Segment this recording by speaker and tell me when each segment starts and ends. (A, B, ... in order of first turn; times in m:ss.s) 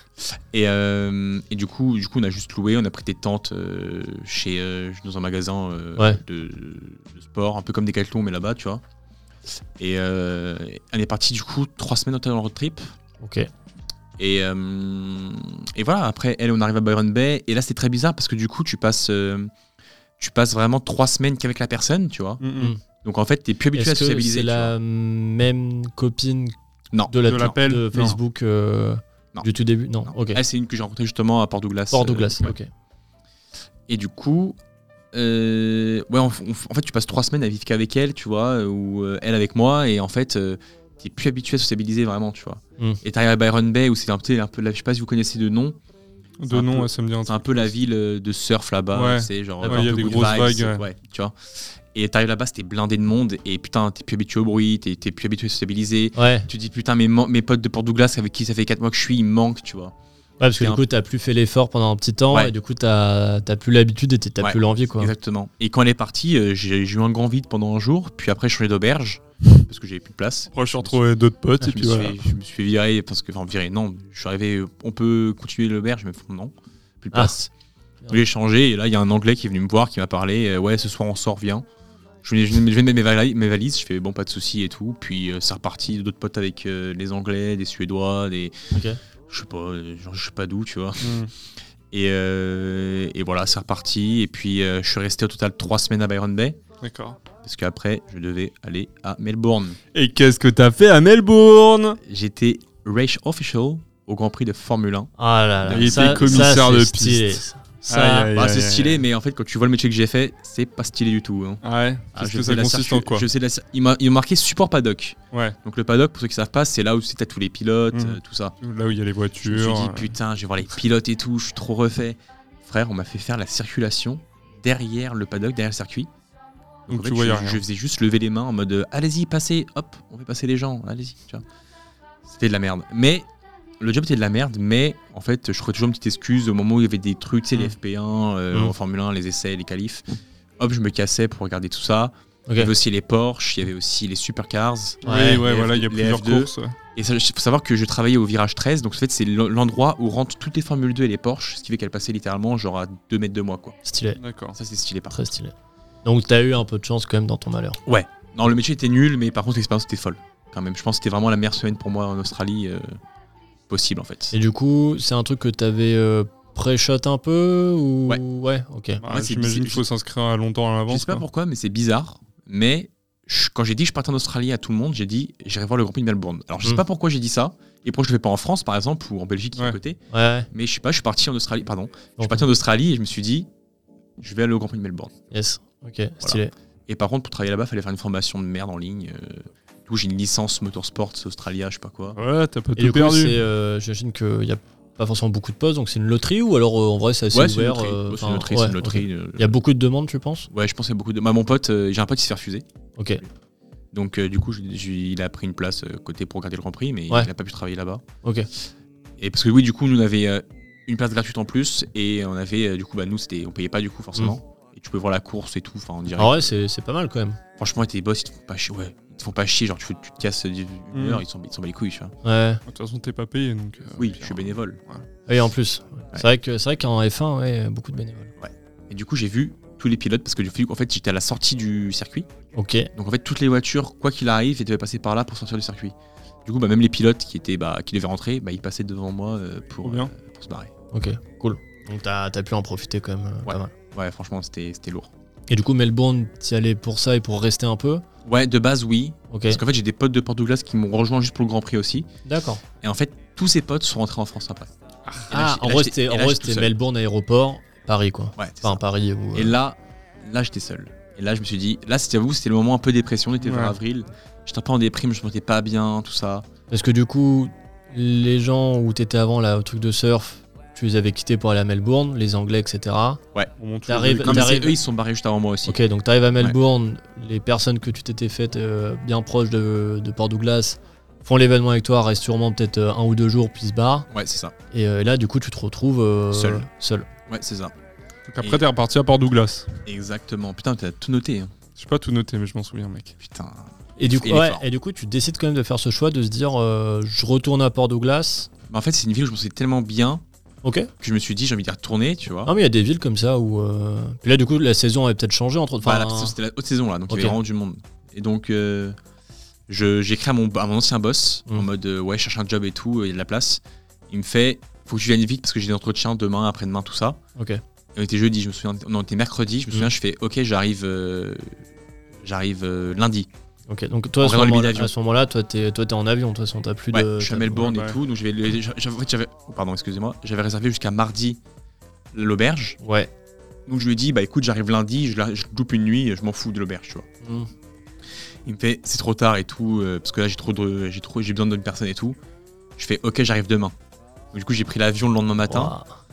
0:00.2-0:08.8 A
0:09.8-0:12.9 A
0:13.2-0:13.5 B
0:14.2-0:19.5 A
0:20.2-0:22.4 A
0:22.4-0:22.7 C
0:23.0-0:24.7 A
0:23.7-0:26.6 B
0:26.9-0:27.6 A
0:27.1-0:30.4 B
0:27.3-0:28.2 C
0:30.1-0:32.5 A
0:31.9-0:32.7 B
0:33.9-0:34.6 A
0:35.1-0:45.8 A
0:46.4-0:47.7 C
0:46.5-1:00.0 A
0:48.9-0:50.8 C
0:49.6-0:50.3 B
0:56.2-0:56.5 B
1:00.4-1:05.1 B
1:00.6-1:00.8 A
1:04.4-1:11.0 A
1:10.5-1:12.2 C
1:11.6-1:17.5 A
1:18.1-1:21.7 A
1:22.2-1:28.6 A
1:28.7-1:29.0 B
1:29.3-1:31.3 A
1:31.0-1:31.3 C
1:31.9-1:36.6 A
1:36.8-1:37.2 C
1:37.4-1:39.8 A
1:39.9-1:42.0 C
1:42.0-1:46.7 A
1:45.2-1:48.3 B
1:45.7-1:49.0 C
1:48.3-1:51.6 A
1:51.6-1:53.3 C
1:52.1-1:58.6 A
1:57.9-2:00.1 C
1:59.4-2:06.1 A
2:06.9-2:11.4 A
2:06.9-2:07.6 C
2:12.2-2:13.3 A
2:13.8-2:20.0 A
2:20.6-2:33.8 A
2:22.5-2:22.7 B
2:25.0-2:26.8 C
2:25.0-2:25.4 B
2:33.8-2:34.2 B
2:34.2-2:34.6 C
2:34.5-2:35.2 A
2:35.1-2:35.5 B
2:36.0-2:37.8 B
2:37.9-2:43.0 A
2:43.7-2:44.4 A
2:44.3-2:49.0 B
2:49.0-2:51.2 C
2:49.0-2:49.8 A
2:50.9-3:00.0 A
3:00.1-3:00.5 B
3:00.5-3:03.5 A
3:02.2-3:02.4 B
3:04.2-3:05.1 A
3:05.3-3:06.5 B
3:06.2-3:12.2 A
3:12.2-3:13.4 C
3:12.8-3:20.5 B
3:17.3-3:19.5 A
3:20.5-3:22.7 A
3:23.0-3:23.2 B
3:23.9-3:28.0 A
3:28.2-3:28.5 B
3:29.2-3:36.6 A
3:36.2-3:37.4 B
3:37.6-3:42.2 A
3:40.9-3:41.2 C
3:42.2-3:42.6 B
3:42.7-3:45.1 C
3:44.0-3:44.8 A
3:45.3-3:48.3 B
3:48.4-3:52.3 A
3:52.5-3:52.9 B
3:52.9-4:00.7 A
3:59.8-4:00.1 C
4:00.9-4:03.7 B
4:03.4-4:05.1 A
4:05.5-4:08.0 B
4:08.2-4:12.1 A
4:09.3-4:09.6 B
4:12.2-4:12.6 B
4:12.8-4:14.7 A
4:15.2-4:16.7 A
4:15.3-4:19.6 B
4:18.4-4:18.8 A
4:19.3-4:26.5 A
4:23.4-4:23.8 C
4:26.7-4:33.2 B
4:33.6-4:34.6 C
4:33.9-4:34.8 B
4:34.2-4:35.8 A
4:35.7-4:44.1 B
4:44.1-4:44.6 A
4:44.7-4:47.1 B
4:46.3-4:46.7 A
4:47.3-4:47.8 A
4:48.3-4:49.8 C
4:49.8-4:51.5 A
4:51.8-4:53.2 C
4:53.2-4:54.7 A
4:54.0-4:58.5 B
4:58.7-5:00.2 A
5:00.6-5:00.9 B
5:01.0-5:02.6 A
5:02.4-5:06.4 B
5:05.8-5:09.0 A
5:07.1-5:07.4 B
5:09.7-5:17.2 A
5:17.4-5:17.6 B
5:18.0-5:21.6 A
5:22.2-5:23.3 A
5:23.7-5:27.7 B
5:24.2-5:24.9 A
5:26.9-5:31.4 A
5:27.6-5:28.0 C
5:32.1-5:32.8 A
5:32.8-5:33.1 B
5:33.7-5:37.1 A
5:37.2-5:37.5 B
5:38.4-5:42.2 A
5:42.8-5:43.8 A
5:44.3-5:45.8 A
5:45.5-5:45.9 B